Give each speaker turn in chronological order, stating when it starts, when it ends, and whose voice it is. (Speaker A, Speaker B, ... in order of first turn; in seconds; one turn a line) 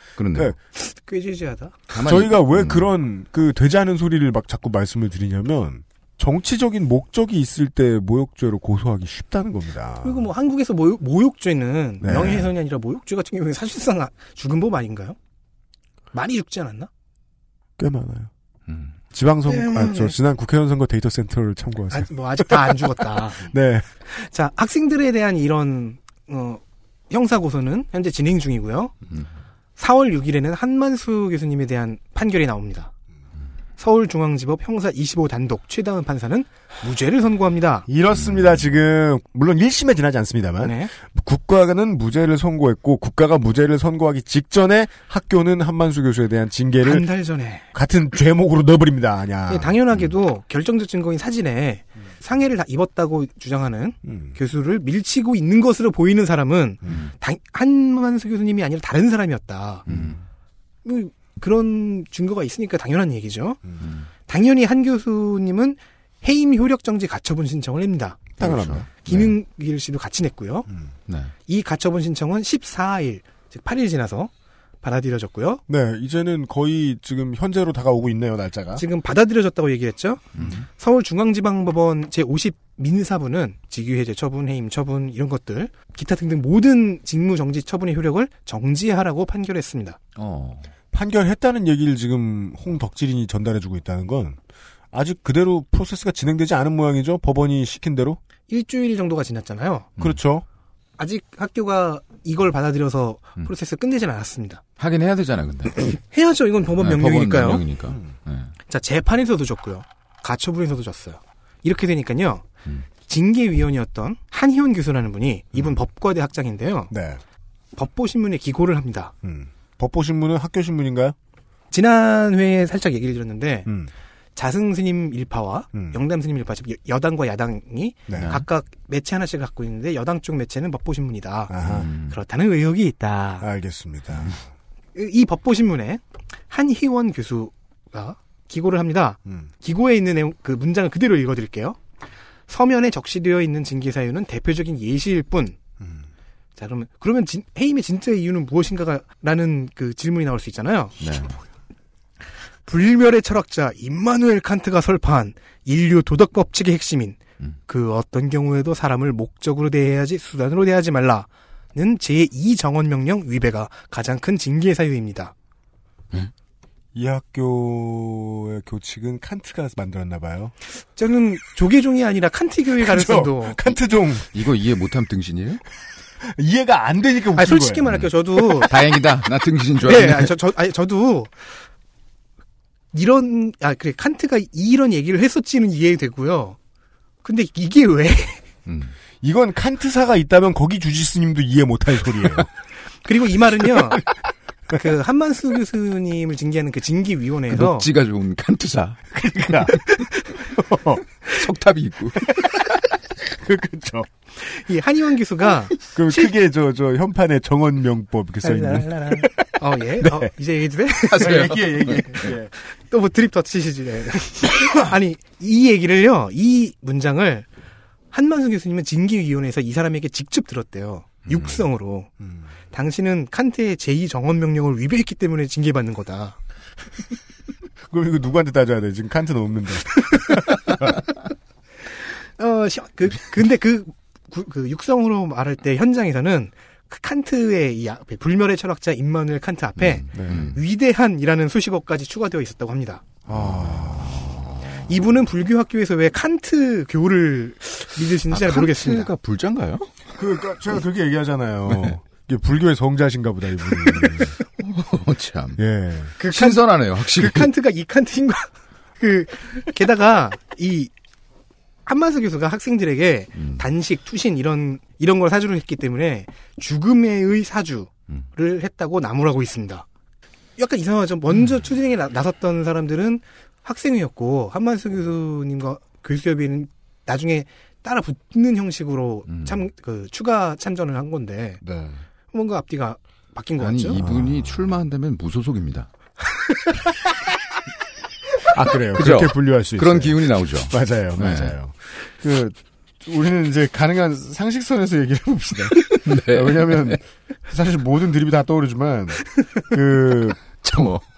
Speaker A: 0.2-0.5
Speaker B: 0.8-1.8
Speaker A: 1.9-2.9
Speaker C: 2.0-10.3
Speaker B: 10.0-15.2
Speaker C: 12.0-12.5
Speaker B: 16.1-16.9
Speaker C: 17.8-18.3
Speaker A: 18.7-18.9
Speaker C: 19.1-23.9
Speaker B: 19.5-20.1
Speaker B: 21.9-23.5
Speaker B: 24.0-28.9
Speaker B: 29.8-32.9
Speaker B: 33.8-37.9
Speaker C: 37.9-47.0
Speaker A: 38.2-38.6
Speaker B: 40.6-40.9
Speaker B: 46.8-47.6
Speaker C: 47.7-49.8
Speaker B: 49.5-59.8
Speaker C: 54.0-54.4
Speaker A: 59.9-60.2
Speaker C: 59.9-60.2
Speaker B: 60.8-63.6
Speaker A: 63.8-64.1
Speaker B: 64.3-68.3
Speaker C: 68.4-68.9
Speaker A: 68.4-69.3
Speaker B: 69.0-70.7
Speaker A: 71.1-71.3
Speaker B: 71.5-74.3
Speaker B: 74.8-75.6
Speaker C: 75.7-78.8
Speaker B: 78.8-90.0
Speaker A: 80.3-80.6
Speaker A: 90.2-90.7
Speaker C: 90.9-94.4
Speaker C: 94.9-98.2
Speaker B: 98.5-99.9
Speaker C: 100.0-100.4
Speaker B: 101.0-104.6
Speaker A: 104.8-106.0
Speaker B: 106.0-107.6
Speaker A: 106.8-108.5
Speaker B: 108.7-116.9
Speaker C: 116.9-117.2
Speaker B: 117.8-119.1
Speaker C: 119.2-121.2
Speaker B: 121.7-123.7
Speaker C: 123.7-123.9
Speaker B: 124.3-133.4
Speaker C: 125.7-126.0
Speaker C: 128.1-128.3
Speaker A: 128.2-128.4
Speaker C: 131.5-131.9
Speaker A: 131.6-132.2
Speaker C: 133.4-134.4
Speaker B: 134.9-141.8
Speaker B: 142.5-145.6
Speaker C: 145.8-146.1
Speaker B: 146.6-150.9
Speaker A: 151.0-151.3
Speaker B: 152.7-165.3
Speaker C: 166.9-170.5
Speaker B: 170.9-173.6
Speaker C: 172.8-174.3
Speaker A: 174.3-175.6
Speaker C: 176.2-177.9
Speaker B: 177.3-178.7
Speaker A: 177.9-180.3
Speaker B: 179.8-181.5
Speaker B: 182.9-186.6
Speaker B: 187.2-188.4
Speaker A: 188.7-188.9
Speaker C: 189.2-192.5
Speaker B: 193.0-194.0
Speaker B: 194.7-197.9
Speaker A: 197.5-199.0
Speaker C: 199.1-201.0
Speaker A: 199.5-199.8
Speaker A: 201.3-202.3
Speaker C: 203.2-204.1
Speaker B: 204.4-206.3
Speaker C: 205.9-210.3
Speaker B: 208.4-211.5
Speaker A: 211.1-212.3
Speaker C: 211.2-212.5
Speaker B: 212.1-217.5
Speaker B: 218.1-222.1
Speaker C: 222.2-222.5
Speaker B: 222.7-226.4
Speaker C: 227.9-231.0
Speaker B: 230.1-230.4
Speaker B: 232.4-243.0
Speaker A: 239.8-240.6
Speaker C: 240.1-240.4
Speaker C: 243.3-244.3
Speaker A: 243.3-244.9
Speaker B: 244.9-249.1
Speaker A: 248.3-250.1
Speaker C: 250.2-254.3
Speaker A: 251.7-251.9
Speaker A: 253.8-255.6
Speaker C: 255.6-256.1
Speaker B: 256.2-256.6
Speaker A: 256.2-257.5
Speaker B: 257.1-260.9
Speaker B: 261.9-269.8
Speaker A: 263.4-263.6
Speaker B: 270.6-281.6
Speaker A: 279.3-279.6
Speaker C: 281.6-282.0
Speaker B: 282.3-284.0
Speaker A: 283.6-285.9
Speaker C: 284.0-284.5
Speaker C: 288.5-300.9
Speaker A: 288.9-291.5
Speaker A: 296.0-297.0
Speaker A: 300.6-301.0